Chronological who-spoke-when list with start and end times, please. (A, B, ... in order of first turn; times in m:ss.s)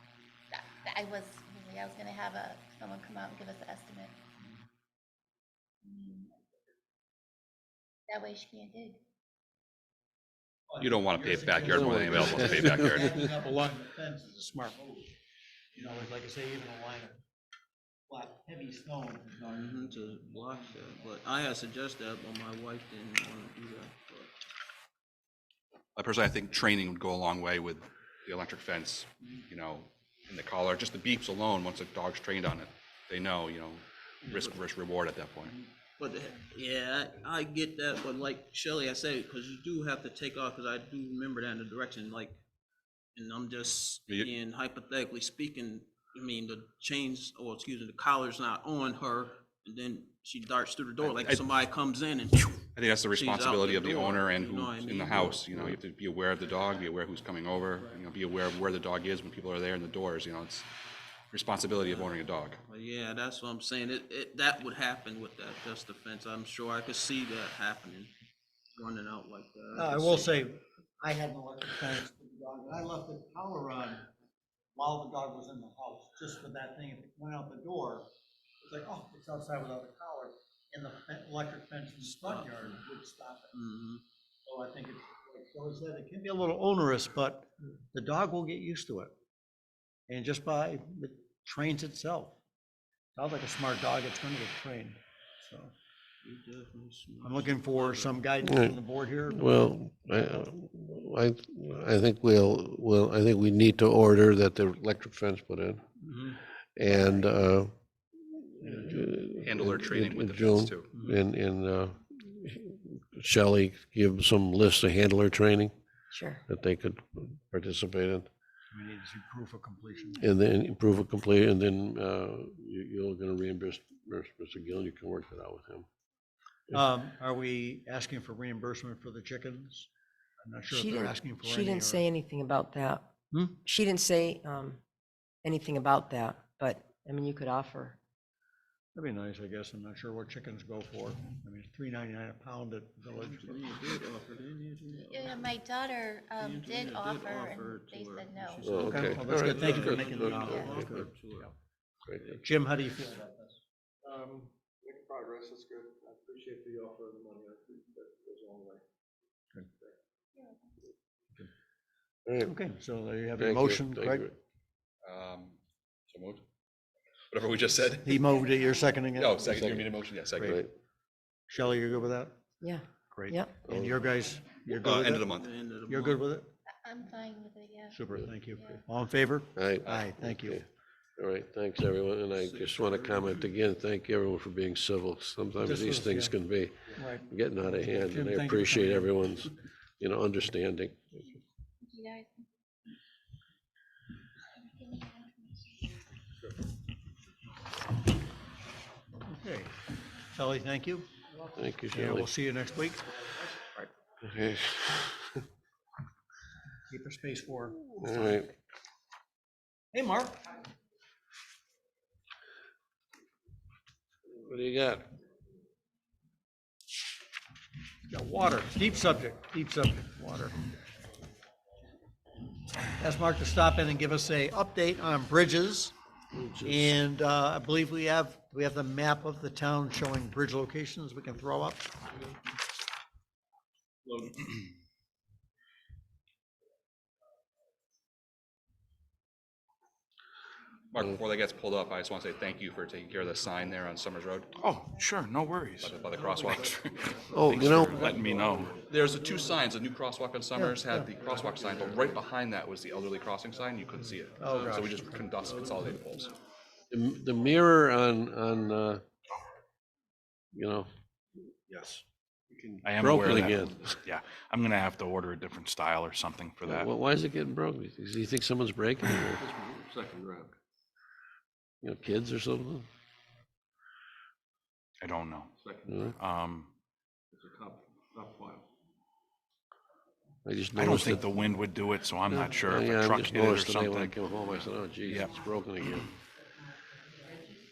0:00.5-0:04.2 A
0:05.8-0:06.4 A
0:08.1-0:09.0 A
0:10.7-0:15.1 B
0:10.8-0:13.2 C
0:11.7-0:13.2 D
0:15.7-0:17.2 B
0:18.1-0:20.7 B
0:19.5-0:24.3 E
0:26.0-0:35.6 C
0:34.3-0:34.6 E
0:35.5-0:42.4 E
0:43.2-0:55.5 E
0:51.0-0:51.4 C
0:52.8-1:00.7 C
1:01.3-1:02.6 C
1:01.8-1:08.1 E
1:08.8-1:10.4 E
1:09.8-1:14.1 B
1:14.8-1:18.1 B
1:18.6-1:23.5 B
1:22.0-1:22.8 E
1:23.5-1:24.0 E
1:24.5-1:29.1 B
1:30.1-1:32.4 B
1:33.2-1:35.7 B
1:36.2-1:38.2 E
1:37.2-1:39.5 B
1:38.4-1:45.8 D
1:46.0-1:46.4 B
1:46.8-1:47.8 D
1:48.3-1:55.8 D
1:49.4-1:50.9 C
1:56.1-1:56.4 F
1:56.5-1:58.3 D
1:58.7-2:00.2 B
2:00.2-2:05.9 D
2:06.7-2:09.9 B
2:10.4-2:12.1 B
2:10.7-2:13.1 F
2:13.3-2:13.6 B
2:13.6-2:14.8 F
2:15.4-2:18.0 F
2:18.9-2:23.9 B
2:23.2-2:25.5 E
2:24.9-2:29.0 A
2:26.4-2:31.5 E
2:28.6-2:31.1 D
2:28.8-2:31.1 B
2:30.3-2:30.7 A
2:32.3-2:33.6 B
2:34.0-2:38.8 G
2:42.3-2:42.5 D
2:42.4-2:44.2 B
2:43.4-2:44.4 D
2:45.0-2:45.6 C
2:46.1-2:46.4 C
2:47.3-2:48.2 C
2:48.0-2:49.6 B
2:48.6-2:48.9 A
2:49.1-2:50.6 C
2:49.5-2:50.7 D
2:51.5-2:52.4 B
2:52.6-2:53.6 F
2:53.0-2:55.3 B
2:53.7-2:54.0 D
2:54.7-2:55.5 C
2:55.4-2:56.3 E
2:55.9-2:56.5 B
2:56.7-2:58.8 A
2:57.9-3:00.6 B
2:59.6-3:00.7 D
3:01.2-3:11.2 D
3:02.3-3:03.5 E
3:05.6-3:06.4 B
3:07.0-3:09.1 B
3:11.8-3:12.5 A
3:14.6-3:15.9 A
3:19.3-3:19.7 B
3:20.3-3:21.2 B
3:21.5-3:22.3 D
3:21.9-3:23.6 B
3:24.2-3:25.4 D
3:26.9-3:28.4 B
3:28.0-3:28.5 D
3:29.9-3:30.4 B
3:34.3-3:35.1 D
3:38.1-3:40.6 B
3:43.0-3:46.0 B
3:46.3-3:46.9 D
3:46.7-3:52.0 B
4:00.9-4:04.6 C
4:04.6-4:06.0 H
4:05.4-4:16.4 C
4:06.1-4:09.3 G
4:07.3-4:08.2 D
4:08.1-4:08.8 H
4:10.6-4:11.2 B
4:11.2-4:12.2 G
4:14.4-4:15.3 B
4:15.5-4:16.3 G
4:16.9-4:19.0 D
4:20.5-4:20.9 D
4:22.5-4:24.0 G
4:22.8-4:26.9 H
4:23.0-4:24.0 D
4:26.6-4:29.4 D
4:29.4-4:30.6 G
4:31.8-4:32.9 D
4:35.0-4:35.5 H
4:35.6-4:36.2 G
4:35.9-4:36.2 D
4:36.1-4:36.7 H
4:37.3-4:38.7 G
4:40.4-4:41.3 D
4:40.7-4:45.4 H
4:42.3-4:46.1 D